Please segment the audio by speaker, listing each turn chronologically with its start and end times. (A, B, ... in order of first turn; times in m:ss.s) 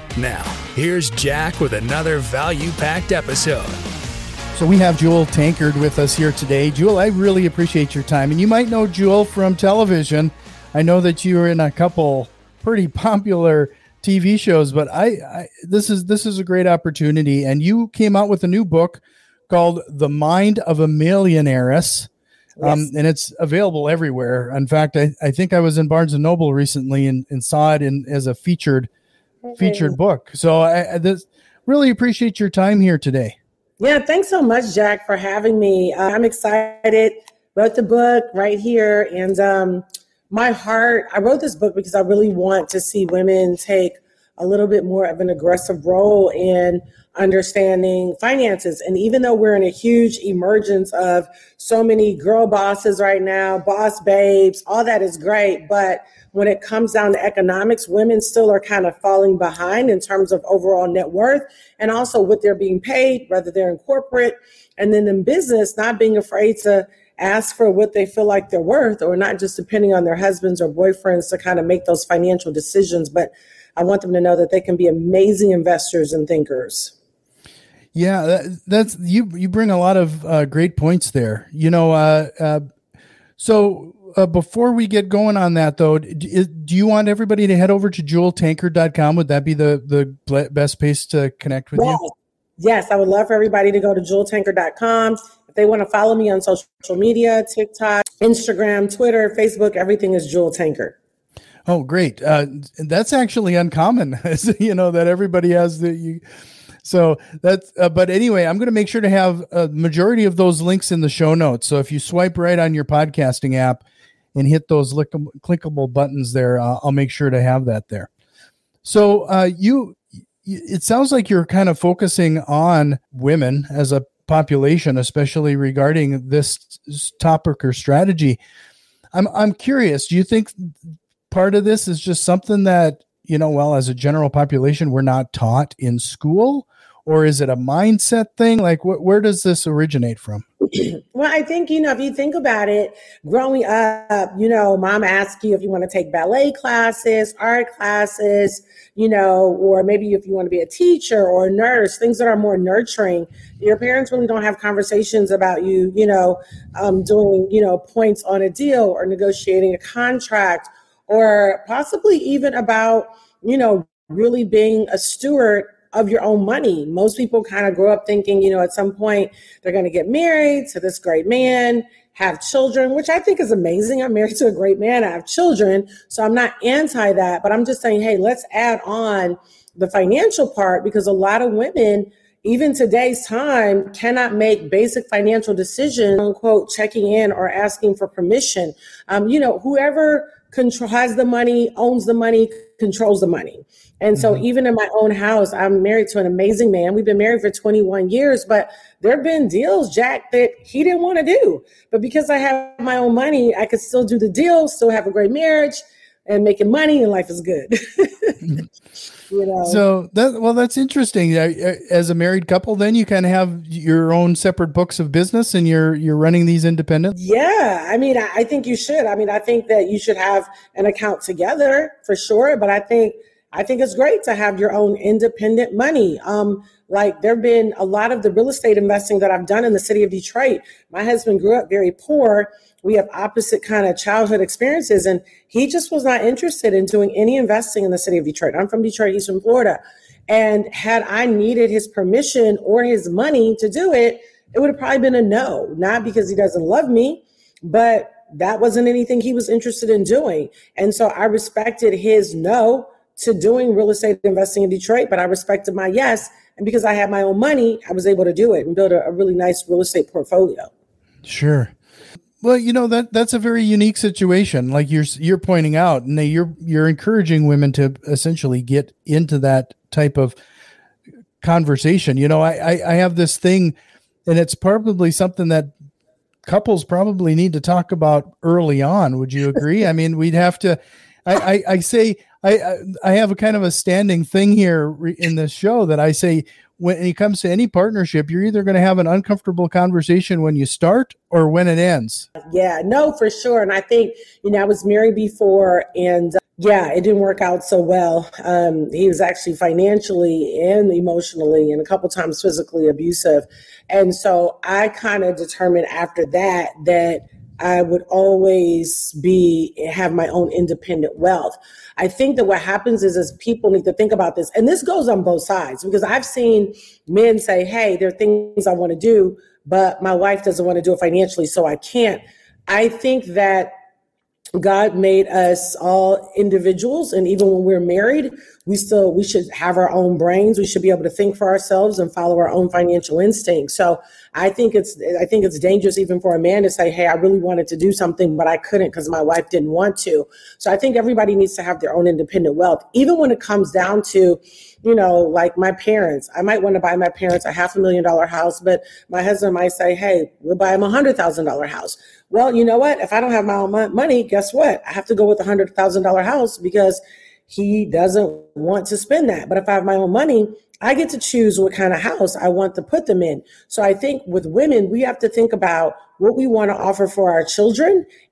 0:00.1-0:03.8 A
0:04.5-0:22.1 B
0:22.6-0:22.9 C
0:22.6-0:28.9 B
0:29.4-0:29.9 C
0:29.6-0:33.4 B
0:33.8-1:16.9 C
1:17.9-1:22.6 B
1:23.4-1:32.0 B
1:31.7-1:41.0 C
1:41.6-1:46.2 B
1:46.8-1:53.8 B
1:54.3-1:58.1 B
1:58.8-2:08.4 B
2:09.1-2:10.8 B
2:11.3-2:20.4 B
2:20.8-3:28.4 C
3:14.2-3:14.4 B
3:29.3-3:29.8 C
3:29.6-3:37.1 B
3:37.1-4:20.7 C
4:21.2-4:21.7 B
4:22.4-4:30.4 B
4:31.4-4:33.7 B
4:34.2-4:35.7 B
4:36.4-4:52.3 B
4:52.4-5:23.7 C
5:24.6-6:08.0 C